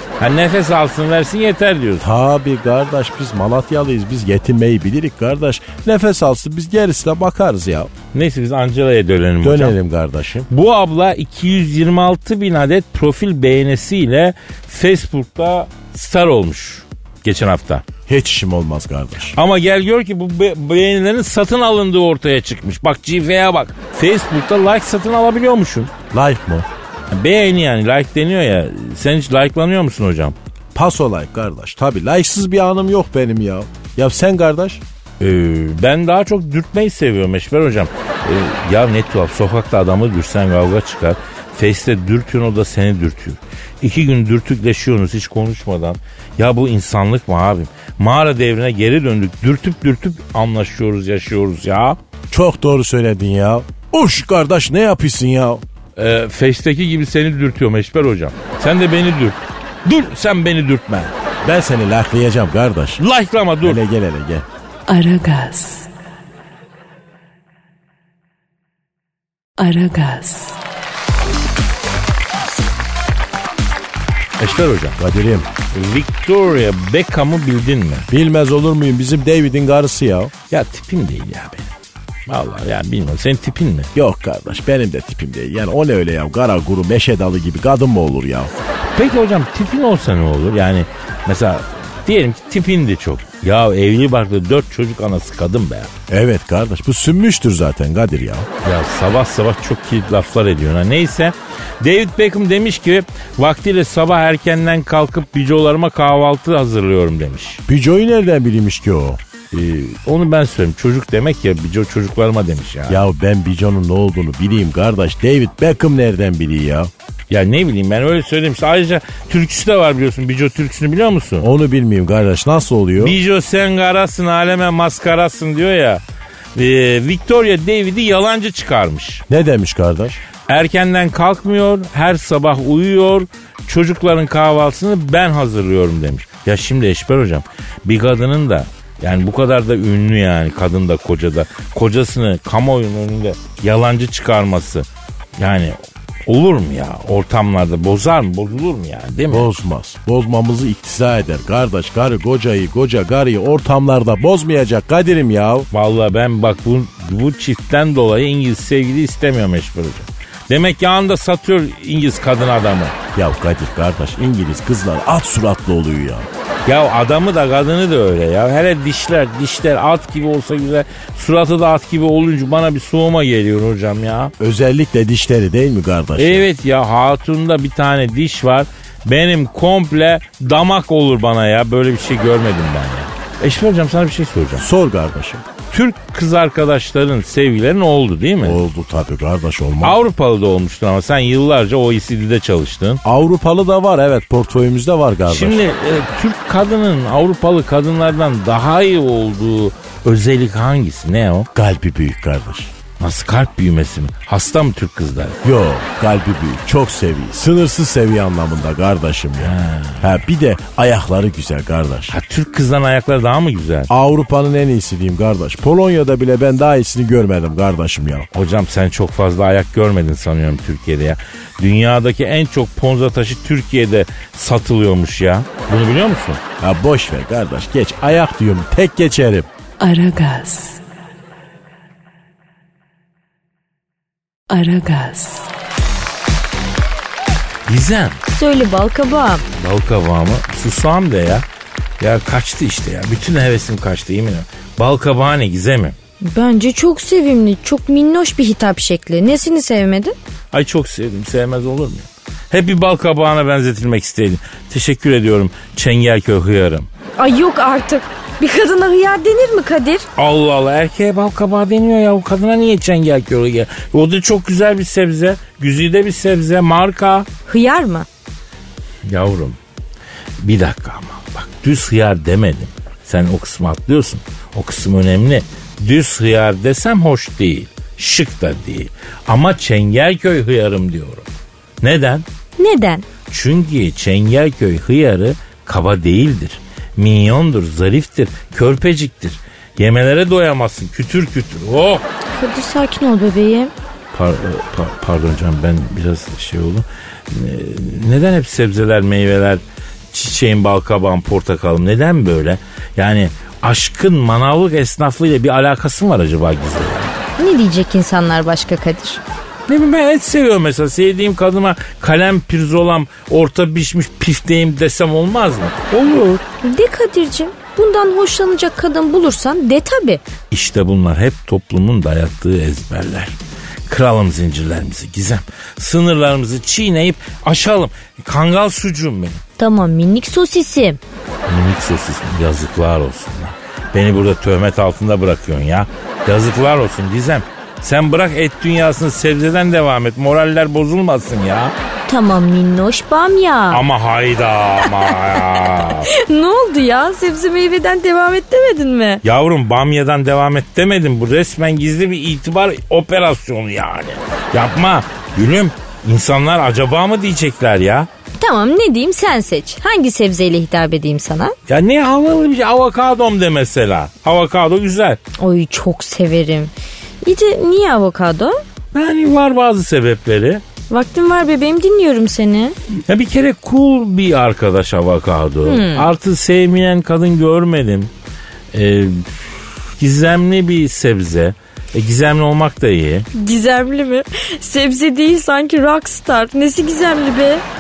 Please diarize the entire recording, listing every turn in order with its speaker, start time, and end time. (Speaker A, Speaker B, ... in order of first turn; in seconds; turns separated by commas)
Speaker A: 0.2-2.1, Speaker B: 2.0-7.9, Speaker A: 8.1-9.8, Speaker B: 9.4-10.5, Speaker A: 10.5-17.9, Speaker B: 18.1-19.4, Speaker A: 19.4-25.9, Speaker B: 26.1-26.7, Speaker A: 27.1-30.4, Speaker B: 30.7-34.8, Speaker A: 35.2-52.0, Speaker B: 52.3-55.6, Speaker A: 56.0-61.1, Speaker B: 61.4-63.0, Speaker A: 63.0-63.8, Speaker B: 63.6-64.5, Speaker C: 64.9-65.9, Speaker C: 69.6-70.6, Speaker A: 74.4-75.0, Speaker B: 75.0-75.5, Speaker A: 75.7-78.1, Speaker B: 78.1-80.3, Speaker A: 80.5-81.7, Speaker A: 82.3-83.9, Speaker B: 83.9-88.5, Speaker A: 88.9-95.9, Speaker B: 96.1-98.5, Speaker A: 98.6-107.6, Speaker B: 107.7-109.2, Speaker A: 109.5-113.0, Speaker B: 112.9-116.9, Speaker A: 117.3-121.5, Speaker B: 121.4-123.2, Speaker A: 123.0-126.0, Speaker A: 126.5-129.2, Speaker B: 129.3-130.2, Speaker A: 130.5-149.5, Speaker B: 149.3-155.7, Speaker A: 155.7-163.0, Speaker B: 163.1-166.3, Speaker A: 166.7-174.3, Speaker B: 174.4-176.5, Speaker A: 176.2-184.7, Speaker B: 184.6-185.4, Speaker A: 185.7-188.6, Speaker B: 188.4-190.0, Speaker A: 189.8-193.0, Speaker B: 193.0-195.6, Speaker A: 195.3-201.5, Speaker B: 201.6-202.7, Speaker A: 203.0-205.4, Speaker B: 205.4-212.2, Speaker A: 209.4-210.1, Speaker A: 212.1-213.9, Speaker B: 213.9-218.3, Speaker A: 218.3-226.4, Speaker B: 226.6-229.5, Speaker C: 229.8-230.8, Speaker C: 234.5-235.5, Speaker A: 237.7-238.2, Speaker D: 238.3-239.4, Speaker A: 239.6-241.4, Speaker A: 242.0-245.9, Speaker D: 246.2-250.2, Speaker A: 250.5-256.9, Speaker D: 257.2-260.1, Speaker A: 260.2-267.3, Speaker D: 267.5-268.1, Speaker A: 269.1-269.6, Speaker A: 270.4-281.3, Speaker A: 281.8-282.2, Speaker D: 282.6-283.1, Speaker A: 283.3-292.0, Speaker D: 292.3-293.7, Speaker A: 294.1-307.1, Speaker D: 307.4-309.2, Speaker A: 309.7-316.4, Speaker D: 316.6-320.2, Speaker A: 320.5-323.4, Speaker A: 323.9-329.4, Speaker D: 329.6-331.0, Speaker A: 331.5-341.7, Speaker D: 342.1-343.8, Speaker A: 343.7-346.1, Speaker D: 345.3-349.2, Speaker A: 349.2-358.1, Speaker D: 358.4-361.6, Speaker A: 361.7-365.2, Speaker D: 365.4-368.6, Speaker A: 368.9-370.6, Speaker D: 370.9-372.8, Speaker A: 373.1-378.1, Speaker D: 375.7-376.1, Speaker A: 378.7-383.3, Speaker D: 383.3-387.6